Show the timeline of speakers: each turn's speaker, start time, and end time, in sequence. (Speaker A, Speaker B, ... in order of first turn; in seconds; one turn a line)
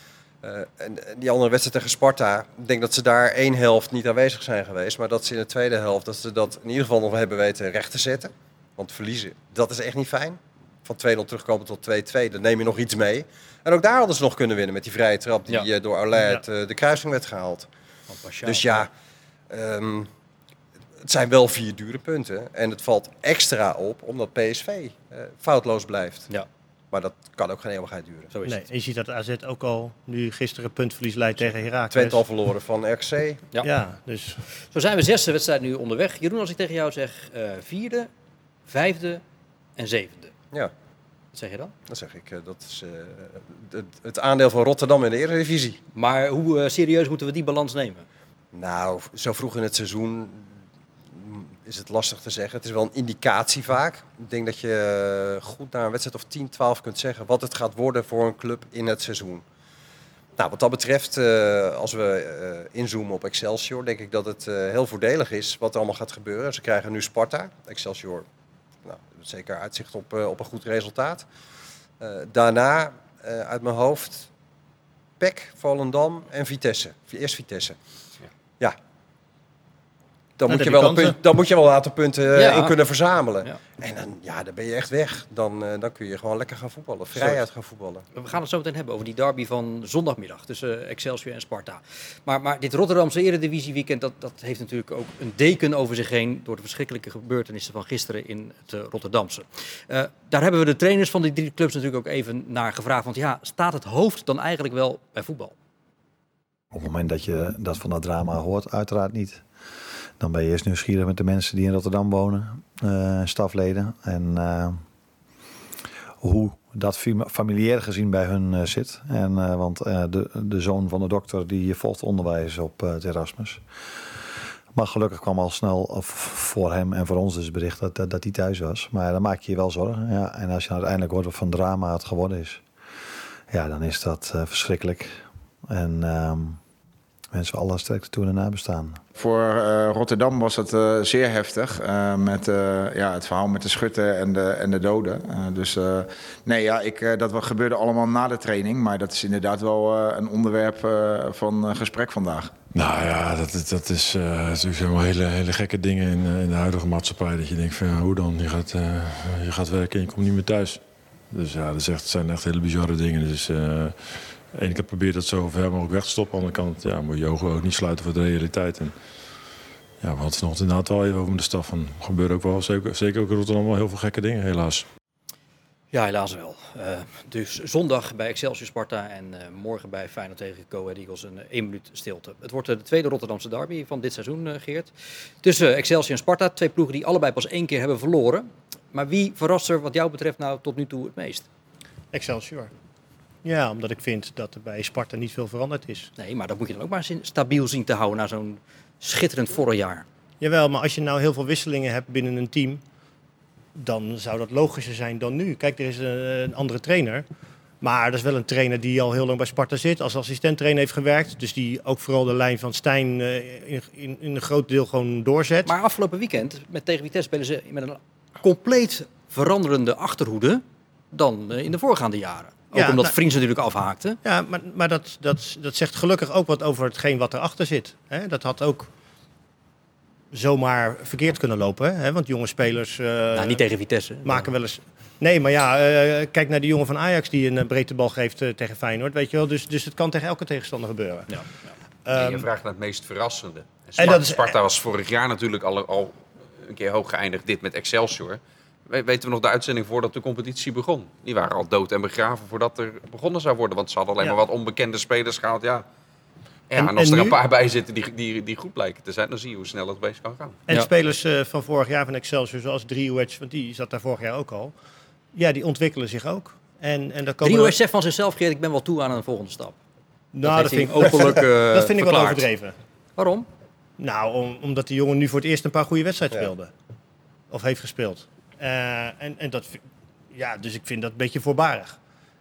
Speaker A: 0.4-17.7
Speaker B: 18.1-18.9
Speaker A: 18.5-18.9
Speaker A: 19.5-20.1
Speaker A: 21.0-26.3
Speaker A: 26.9-28.3
Speaker B: 28.3-28.6
Speaker C: 28.5-32.2
Speaker A: 31.9-33.5
Speaker C: 33.6-34.4
Speaker B: 34.7-38.1
Speaker B: 38.7-39.2
Speaker B: 39.8-40.3
Speaker B: 41.3-41.7
Speaker A: 41.9-45.8
Speaker B: 45.9-48.1
Speaker A: 48.5-50.5
Speaker A: 51.1-59.4
Speaker A: 60.4-68.2
Speaker A: 68.8-71.3
Speaker A: 72.0-74.3
Speaker A: 75.2-77.8
Speaker A: 80.4-88.1
Speaker C: 80.5-81.2
Speaker B: 82.3-82.8
Speaker B: 87.2-87.4
Speaker B: 88.1-105.5
Speaker D: 106.7-109.4
Speaker D: 110.2-114.8
Speaker D: 116.2-123.6
Speaker D: 124.7-132.6
Speaker D: 133.5-136.6
Speaker D: 137.3-139.0
Speaker E: 139.2-152.5
Speaker F: 152.7-160.8
Speaker F: 161.3-168.9
Speaker F: 170.0-174.8
Speaker B: 175.9-191.5
Speaker C: 192.1-192.7
Speaker C: 193.4-196.1
Speaker B: 196.2-200.1
Speaker C: 200.4-202.8
Speaker C: 203.8-207.3
Speaker C: 207.8-215.8
Speaker B: 215.7-224.2
Speaker C: 222.7-223.1
Speaker C: 224.2-228.9
Speaker C: 230.3-233.6
Speaker B: 233.3-234.5
Speaker C: 234.2-241.4
Speaker C: 242.1-242.5
Speaker G: 242.1-255.8
Speaker C: 244.0-244.6
Speaker G: 256.7-260.6
Speaker C: 256.8-257.4
Speaker C: 260.7-264.7
Speaker C: 265.3-267.8
Speaker B: 267.4-269.8
Speaker C: 270.3-272.8
Speaker B: 270.4-272.5
Speaker B: 273.2-273.5
Speaker C: 274.0-276.7
Speaker C: 277.5-282.0